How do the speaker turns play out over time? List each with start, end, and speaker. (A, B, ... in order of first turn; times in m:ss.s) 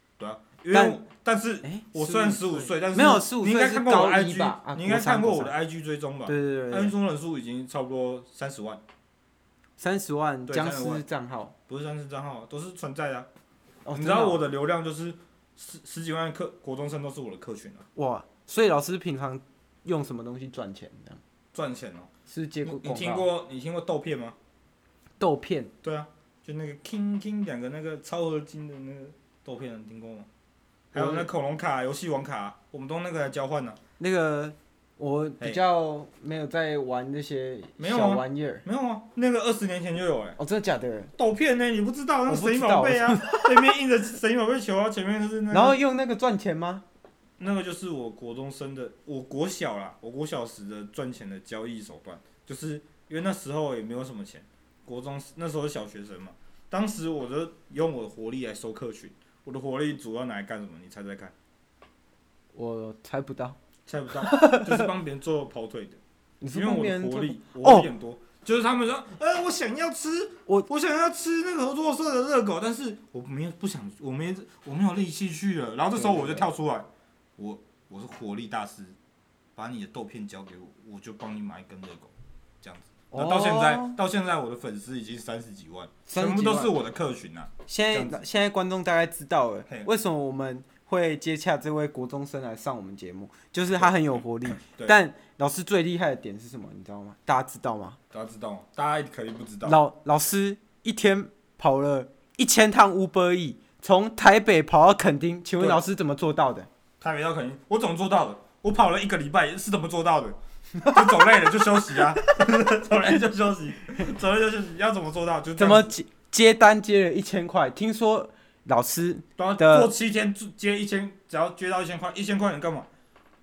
0:00.2-0:08.8 A
0:00.7-0:01.0 B
0:01.6-0:05.5 B
0:06.3-0:06.9 B
0:09.8-0:11.5 B
0:10.5-0:11.0 A
0:11.7-0:13.3 A
0:13.8-0:14.4 B
0:13.9-0:17.8 A
0:18.0-0:21.2 B
0:21.5-0:22.1 A
0:22.3-0:23.3 B
0:22.6-0:24.4 A
0:25.2-0:25.7 B
0:25.8-0:30.3 A
0:30.9-0:31.3 B
0:30.9-0:33.8 A
0:34.0-0:38.6 B
0:37.8-0:40.4 A
0:40.4-0:41.1 B
0:41.2-0:45.8 A
0:42.3-0:43.7 B
0:45.5-0:46.8 B
0:47.4-1:01.3 A
1:02.5-1:03.6 B
1:03.9-1:06.0 A
1:04.2-1:04.9 B
1:06.4-1:07.9 B
1:06.5-1:19.0 A
1:15.9-1:16.5 B
1:19.6-1:28.2 A
1:23.1-1:24.0 B
1:26.1-1:26.7 B
1:27.7-1:38.0 B
1:33.7-1:35.0 A
1:38.1-1:39.8 A
1:39.6-1:46.7 B
1:47.0-1:55.9 A
1:55.6-1:59.9 B
1:59.4-2:02.9 A